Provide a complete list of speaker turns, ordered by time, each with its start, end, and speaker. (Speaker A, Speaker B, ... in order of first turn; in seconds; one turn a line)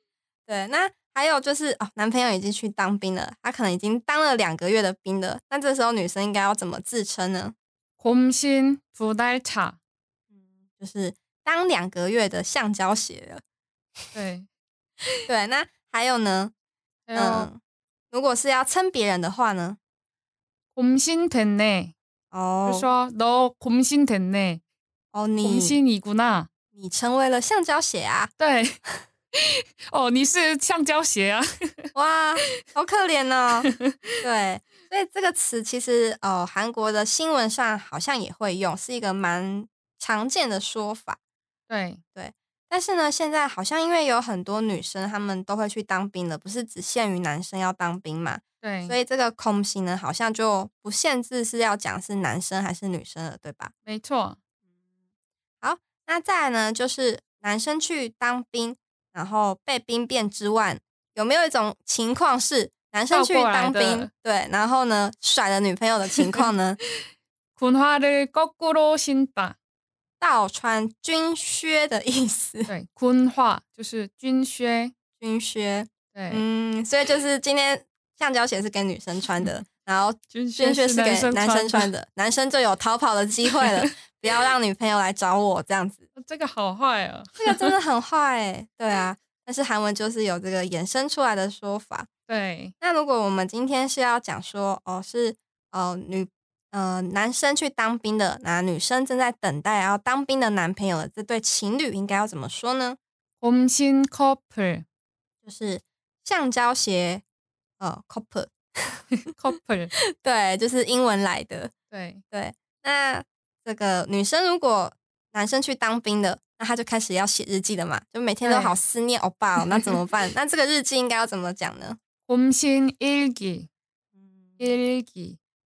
Speaker A: 0.5-7.5
Speaker B: 8.0-9.8
Speaker A: 10.8-13.4
Speaker B: 14.1-14.5
Speaker A: 15.2-16.5
Speaker B: 17.1-17.5
Speaker A: 17.1-17.6
Speaker A: 18.1-19.8
Speaker B: 20.8-21.9
Speaker A: 22.3-22.9
Speaker B: 22.6-24.6
Speaker A: 25.1-25.8
Speaker B: 25.4-26.5
Speaker A: 26.8-28.3
Speaker B: 28.4-28.8
Speaker B: 29.4-31.8
Speaker A: 31.9-33.7
Speaker B: 33.7-34.1
Speaker A: 34.2-41.2
Speaker B: 41.7-42.0
Speaker A: 42.1-53.7
Speaker B: 48.6-49.0
Speaker B: 53.8-54.4
Speaker A: 55.6-66.8
Speaker B: 63.1-64.1
Speaker B: 66.2-66.5
Speaker B: 67.6-69.6
Speaker A: 70.2-72.7
Speaker B: 72.7-74.9
Speaker A: 75.2-86.0
Speaker B: 76.1-76.4
Speaker B: 80.3-81.9
Speaker B: 83.6-83.9
Speaker B: 86.2-87.8
Speaker A: 87.4-92.1
Speaker B: 92.3-92.7
Speaker A: 92.8-103.0
Speaker B: 103.4-104.8
Speaker A: 105.4-107.2
Speaker A: 107.8-109.1
Speaker B: 109.3-109.9
Speaker A: 110.1-111.7
Speaker B: 111.9-112.2
Speaker A: 112.3-122.0
Speaker B: 118.4-118.8
Speaker B: 119.6-120.0
Speaker B: 122.3-123.7
Speaker B: 124.6-125.4